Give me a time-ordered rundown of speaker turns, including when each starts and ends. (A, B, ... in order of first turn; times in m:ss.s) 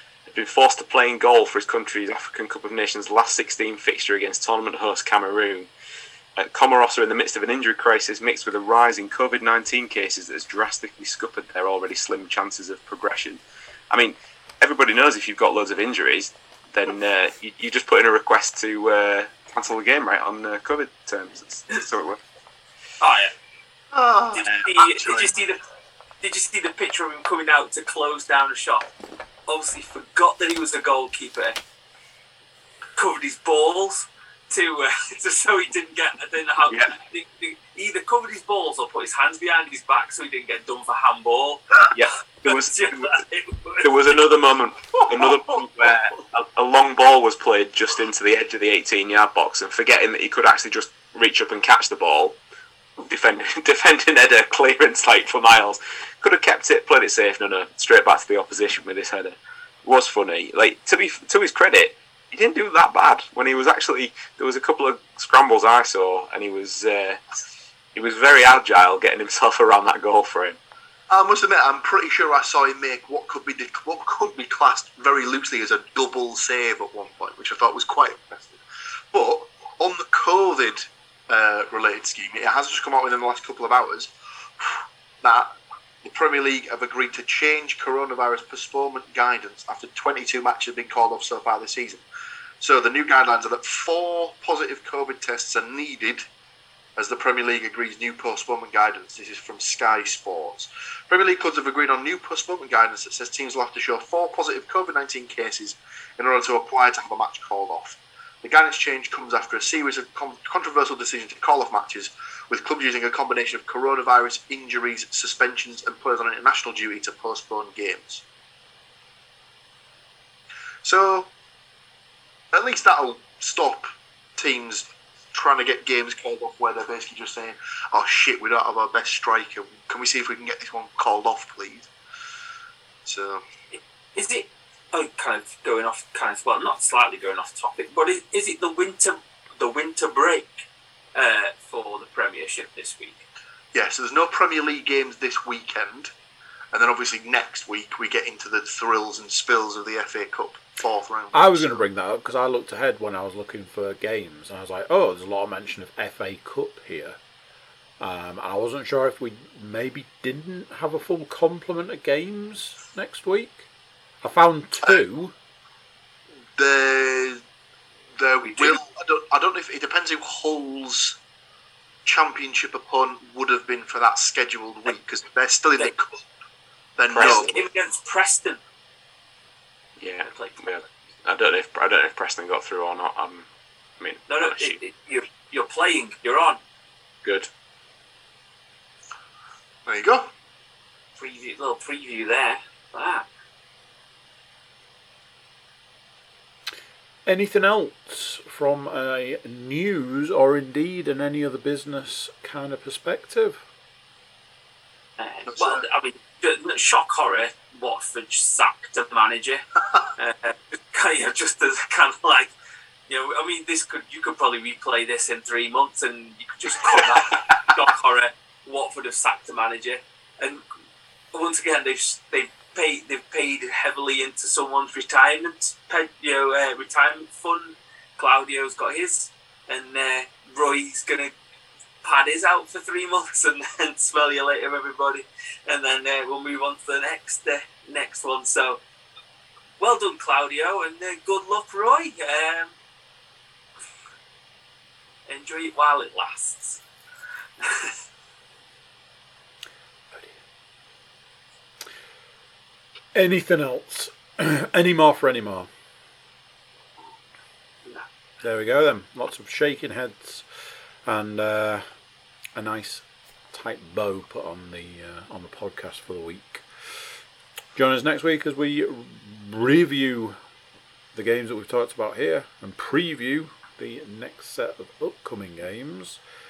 0:00.3-0:05.7 A
0:06.4-0:13.4 A
0:13.9-0:22.2 A
0:23.0-0:23.3 B
0:23.9-0:25.3 C
0:24.3-0:25.6 B
0:26.2-0:28.9 B
0:29.5-0:31.6 B
0:33.0-0:41.8 B
0:41.9-0:43.2 A
0:42.4-0:44.2 B
0:43.8-0:52.4 A
0:45.0-0:45.6 C
0:53.0-1:07.2 A
1:07.9-1:10.6 A
1:11.1-1:18.6 C
1:19.1-1:25.5 C
1:26.0-1:32.0 C
1:32.6-1:36.2 C
1:37.0-1:58.2 C
2:00.8-2:01.3 C
2:02.5-2:11.9 C
2:13.0-2:13.4 C
2:13.7-2:20.6 B
2:21.1-2:23.2 B
2:23.7-2:26.1 C
2:26.7-2:31.8 C
2:31.3-2:37.2 D
2:38.0-2:43.7 D
2:44.2-2:45.3 D
2:46.6-2:47.4 C
2:48.2-2:51.2 C
2:52.0-2:56.2 C
2:57.0-2:57.6 C
2:57.1-2:57.6 A
2:57.2-2:58.6 B
3:00.0-3:03.5 A
3:00.3-3:00.6 B
3:04.0-3:04.8 A
3:04.3-3:06.6 B
3:07.2-3:07.5 A
3:09.8-3:10.3 C
3:11.2-3:13.2 B
3:17.2-3:23.6 D
3:25.2-3:29.6 B
3:25.5-3:25.8 C
3:30.2-3:32.5 B
3:33.1-3:40.6 B
3:41.3-3:51.3 B
3:52.0-3:58.8 B
3:59.8-4:02.7 B
4:05.3-4:06.8 B
4:07.6-4:08.0 B
4:13.1-4:15.7 D
4:18.4-4:20.4 D
4:21.0-4:21.8 D
4:22.5-4:26.6 D
4:27.7-4:30.4 D
4:31.1-4:36.2 D